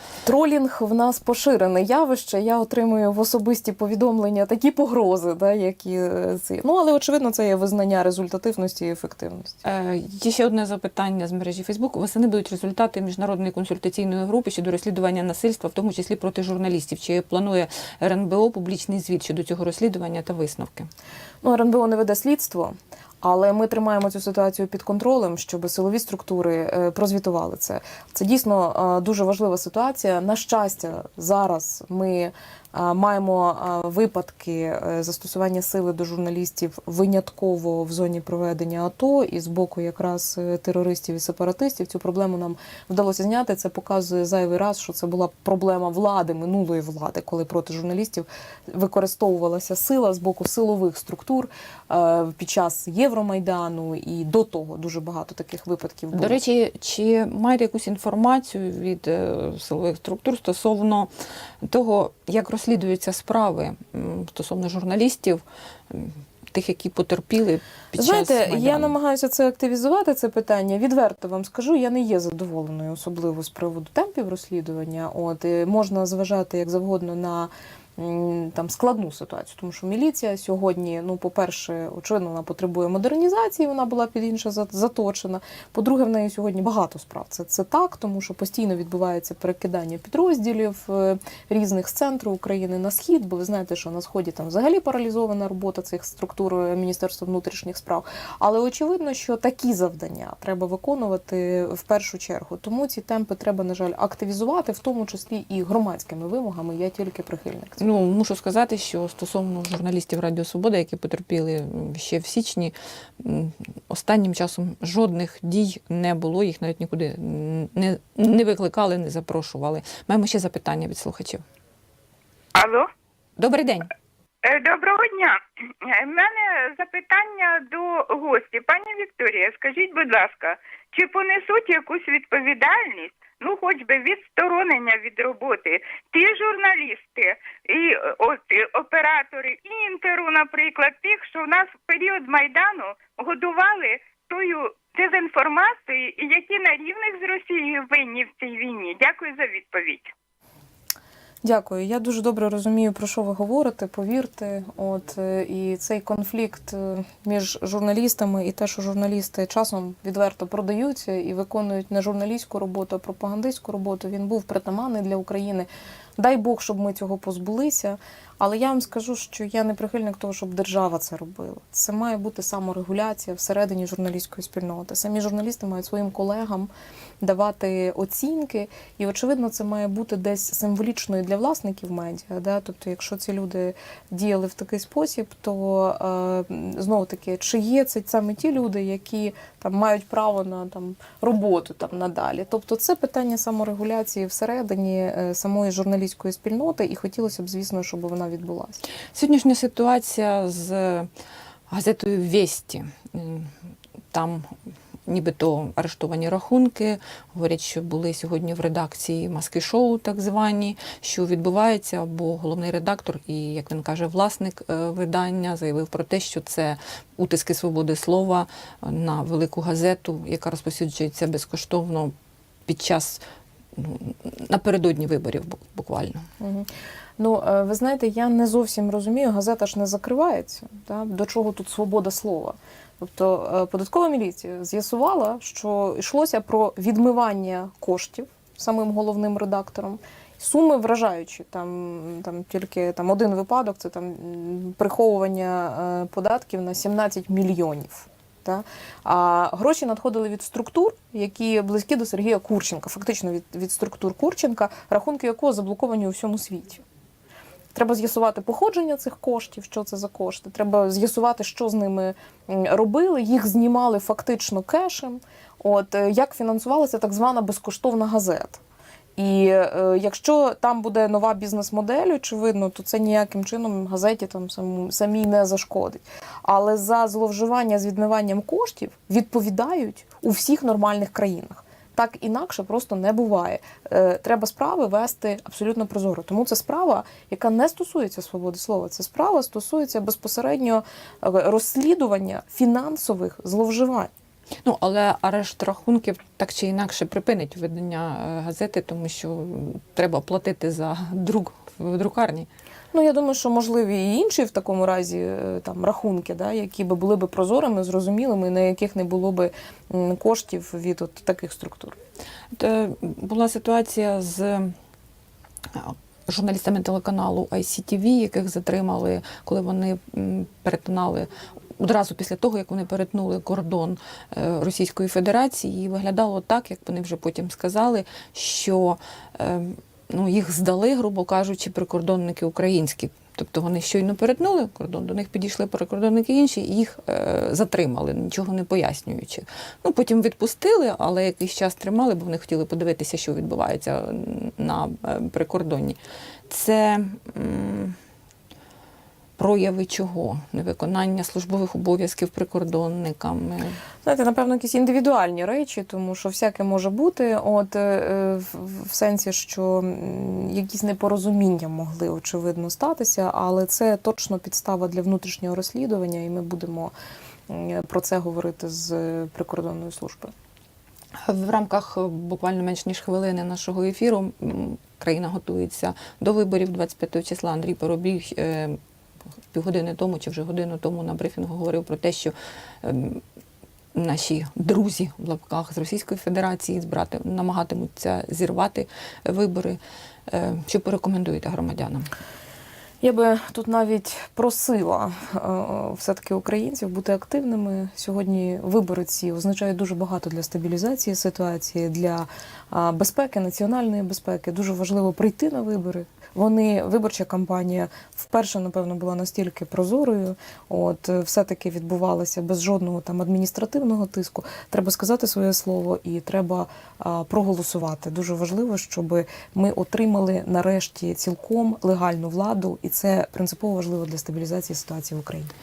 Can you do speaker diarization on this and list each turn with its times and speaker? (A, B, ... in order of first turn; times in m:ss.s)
0:00.2-0:09.6 A
0:09.6-0:20.9 B
0:21.4-0:56.4 A
0:56.1-1:01.1 B
1:01.6-1:08.9 B
1:07.9-1:47.8 A
1:47.8-2:01.4 B
2:02.6-2:02.9 C
2:03.4-2:03.9 B
2:04.4-2:30.1 C
2:31.4-3:18.8 A
3:19.1-3:21.1 B
3:21.7-3:23.5 B
3:24.1-3:24.5 B
3:25.1-3:42.1 B
3:42.7-3:43.2 B
3:43.8-3:46.3 B
3:46.4-4:16.8 A
4:17.7-4:28.6 A
4:29.2-4:54.1 A
4:54.6-5:02.5 B
5:02.9-5:12.0 A
5:12.6-5:14.8 B
5:15.7-5:48.0 B
5:49.4-5:53.8 B
5:54.0-6:06.9 A
6:07.5-6:10.3 A
6:11.2-6:18.8 B
6:19.5-6:23.2 B
6:23.9-6:32.1 B
6:33.0-7:05.5 A